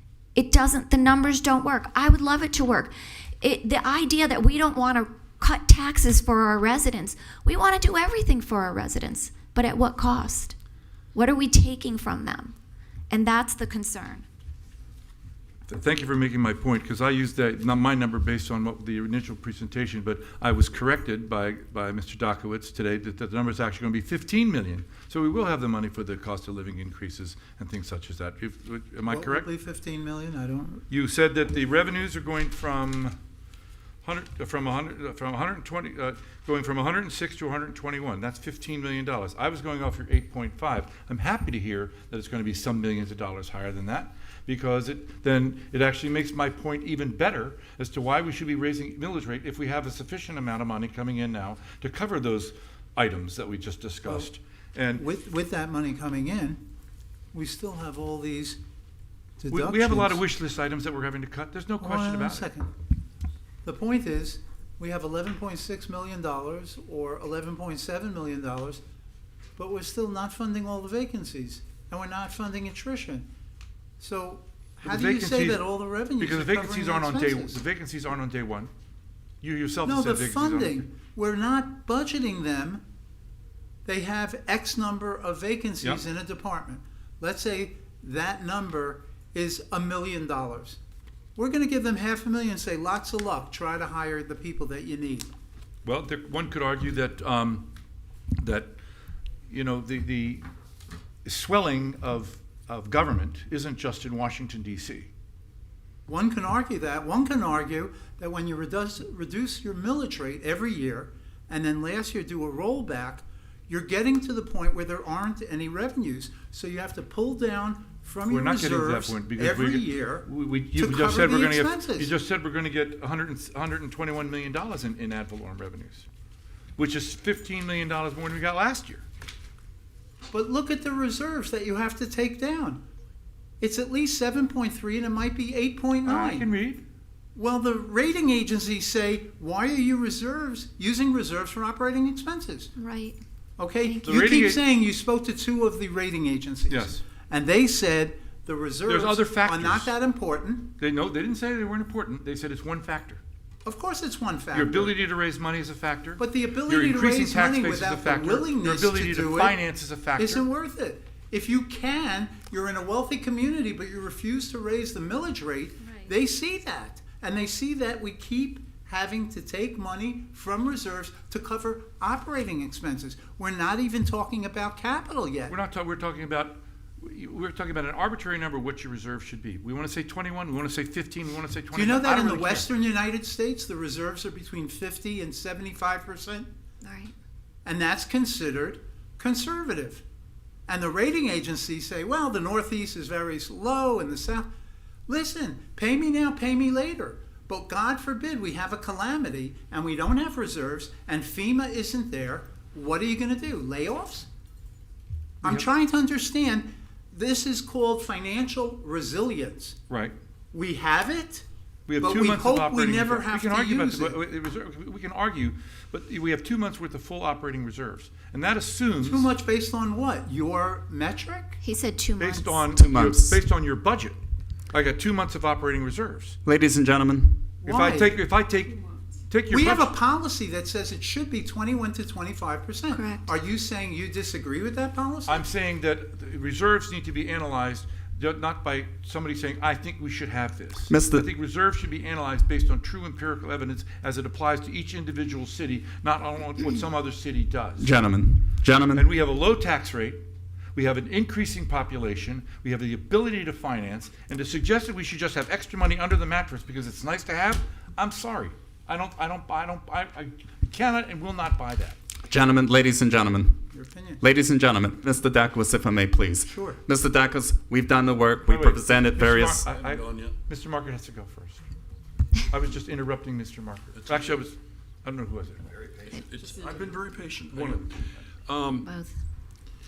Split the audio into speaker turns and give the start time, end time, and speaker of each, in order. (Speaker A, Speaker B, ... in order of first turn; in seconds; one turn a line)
Speaker A: 0.3-10.6
Speaker A: 11.1-12.6
Speaker A: 13.1-14.3
Speaker B: 15.7-29.5
Speaker C: 29.1-30.8
Speaker B: 30.9-33.2
Speaker B: 34.0-55.0
Speaker C: 54.0-54.3
Speaker C: 55.0-56.6
Speaker C: 57.3-58.6
Speaker C: 59.4-60.2
Speaker B: 59.5-62.5
Speaker C: 61.8-62.7
Speaker C: 63.6-68.8
Speaker C: 69.6-73.3
Speaker C: 74.0-77.6
Speaker B: 74.8-78.7
Speaker B: 79.4-80.9
Speaker C: 79.8-82.8
Speaker C: 83.8-90.8
Speaker C: 91.4-95.3
Speaker B: 95.8-97.7
Speaker B: 98.4-98.8
Speaker B: 99.5-100.4
Speaker B: 101.2-105.1
Speaker C: 106.1-122.1
Speaker B: 118.3-126.1
Speaker B: 126.8-129.0
Speaker C: 130.3-132.8
Speaker C: 133.6-136.5
Speaker B: 136.1-136.8
Speaker C: 137.4-142.7
Speaker A: 142.8-143.2
Speaker C: 143.6-150.7
Speaker A: 143.8-144.1
Speaker B: 144.0-144.6
Speaker B: 146.7-147.0
Speaker B: 148.9-150.0
Speaker B: 150.8-153.2
Speaker C: 153.7-155.0
Speaker B: 154.5-160.5
Speaker C: 156.2-159.6
Speaker C: 160.2-175.6
Speaker A: 165.8-166.1
Speaker B: 175.5-182.7
Speaker C: 181.7-186.5
Speaker A: 186.8-187.1
Speaker C: 187.7-190.0
Speaker C: 190.7-194.5
Speaker C: 195.1-204.3
Speaker C: 205.4-209.8
Speaker B: 209.9-210.1
Speaker C: 210.5-211.4
Speaker B: 211.9-219.3
Speaker C: 212.0-214.2
Speaker C: 219.0-221.6
Speaker A: 221.6-222.7
Speaker B: 222.2-224.2
Speaker D: 222.7-223.4
Speaker B: 224.7-226.4
Speaker D: 226.4-227.4
Speaker C: 227.6-228.2
Speaker B: 227.7-229.9
Speaker C: 229.5-235.5
Speaker A: 232.9-233.3
Speaker B: 235.3-247.9
Speaker D: 240.9-241.3
Speaker D: 247.8-249.1
Speaker B: 248.9-250.2
Speaker B: 250.8-262.0
Speaker D: 262.3-263.6
Speaker C: 263.7-264.2
Speaker D: 264.2-269.6
Speaker C: 266.4-266.8
Speaker B: 268.5-271.6
Speaker E: 269.7-270.3
Speaker B: 272.5-275.7
Speaker E: 274.0-274.4
Speaker E: 275.7-278.9
Speaker B: 277.5-278.1
Speaker A: 278.8-279.2